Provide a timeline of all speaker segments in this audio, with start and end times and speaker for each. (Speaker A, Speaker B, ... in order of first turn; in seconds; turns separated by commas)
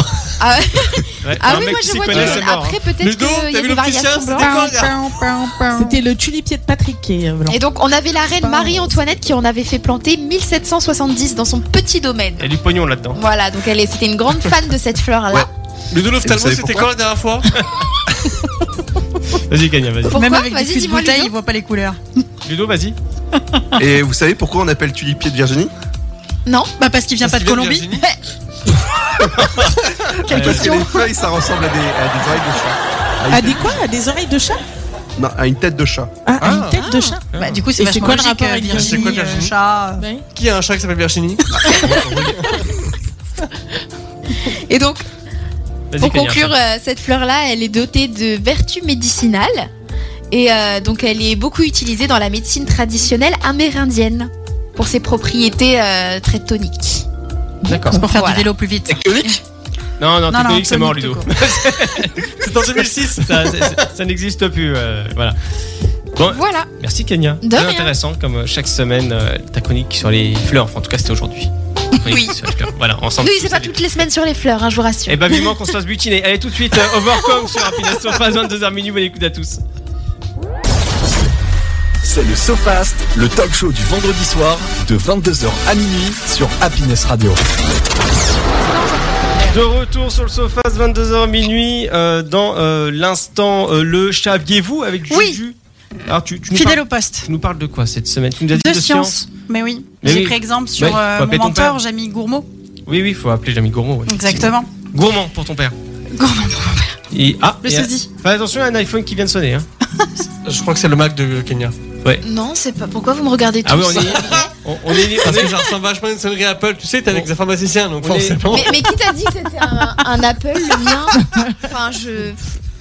Speaker A: 0.4-4.7, Speaker B: 1.2-2.8, Speaker C: 2.1-5.3, Speaker D: 4.4-6.0, Speaker E: 5.7-7.6, Speaker A: 7.5-12.5, Speaker E: 8.4-9.0, Speaker B: 12.4-13.2, Speaker A: 13.2-15.5, Speaker C: 15.9-17.5, Speaker F: 16.2-16.9, Speaker B: 19.5-20.2, Speaker A: 20.1-21.3, Speaker D: 20.1-22.2, Speaker B: 22.5-23.0, Speaker F: 23.8-25.7, Speaker A: 26.5-26.7, Speaker D: 26.8-28.1, Speaker C: 27.2-28.1, Speaker D: 30.2-31.0, Speaker B: 30.3-30.8, Speaker F: 30.3-33.7, Speaker E: 33.3-34.6, Speaker F: 35.2-36.1, Speaker E: 36.3-37.2, Speaker C: 36.4-36.9, Speaker D: 36.8-40.1, Speaker B: 37.3-37.6, Speaker E: 37.8-39.2, Speaker C: 38.7-39.5, Speaker E: 40.0-40.2, Speaker C: 40.3-42.5, Speaker A: 44.5-45.1, Speaker B: 45.9-46.5, Speaker A: 46.0-49.7, Speaker A: 50.3-57.0, Speaker E: 57.6-58.1, Speaker B: 57.7-58.0, Speaker D: 57.9-59.0, Speaker A: 58.1-58.5, Speaker B: 60.0-65.4, Speaker D: 60.3-61.3, Speaker C: 62.3-63.8, Speaker B: 66.2-74.1, Speaker A: 66.3-66.7, Speaker A: 67.4-67.9, Speaker A: 72.1-72.4, Speaker A: 73.2-75.5, Speaker B: 75.1-79.6, Speaker G: 82.0-87.4, Speaker D: 88.6-89.6, Speaker B: 89.5-95.6, Speaker D: 95.1-95.4, Speaker B: 96.1-99.2, Speaker D: 96.5-97.3, Speaker D: 98.5-102.5, Speaker B: 100.0-101.8, Speaker B: 102.9-105.7, Speaker D: 104.1-104.7, Speaker D: 106.2-106.9, Speaker B: 107.1-109.7, Speaker D: 107.6-108.1, Speaker C: 110.5-111.7, Speaker A: 112.2-114.5, Speaker B: 113.7-115.6, Speaker C: 113.9-114.5, Speaker C: 115.2-118.8, Speaker B: 118.0-118.7, Speaker A: 118.5-122.6